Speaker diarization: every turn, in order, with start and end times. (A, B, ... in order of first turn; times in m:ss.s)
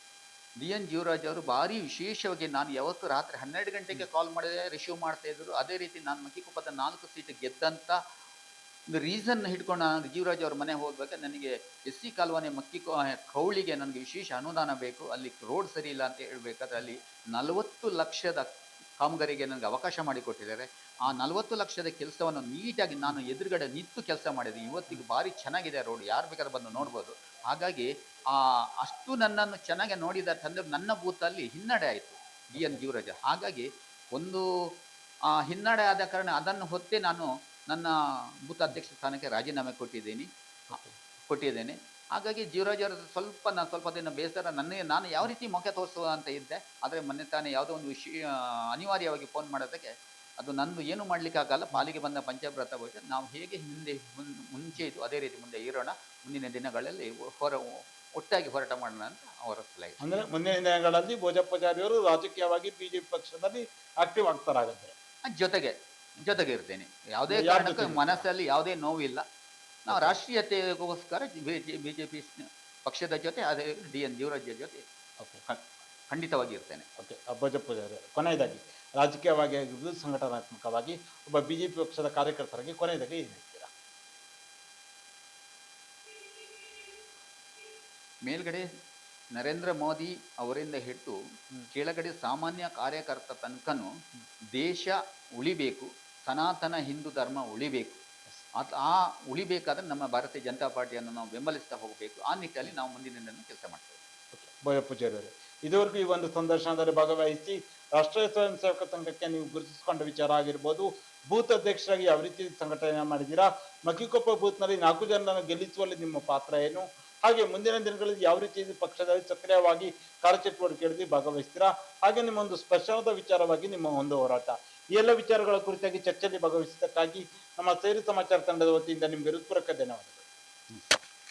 0:00.6-0:08.0 A
0:08.9-0:18.5 A
0:19.0-0:34.7 A
0:32.5-0:32.8 B
0:35.3-0:40.3 A
0:40.7-0:41.0 B
0:41.3-1:00.2 A
1:00.0-1:04.9 B
1:05.3-1:09.2 A
1:07.3-1:08.2 B
1:09.9-1:10.2 B
1:09.9-1:14.8 A
1:15.5-1:16.8 A
1:17.0-1:23.7 B
1:28.2-1:28.6 A
1:29.3-1:31.2 A
1:31.7-1:33.9 A
1:34.5-1:38.0 A
1:38.6-1:44.0 A
1:44.3-2:10.2 B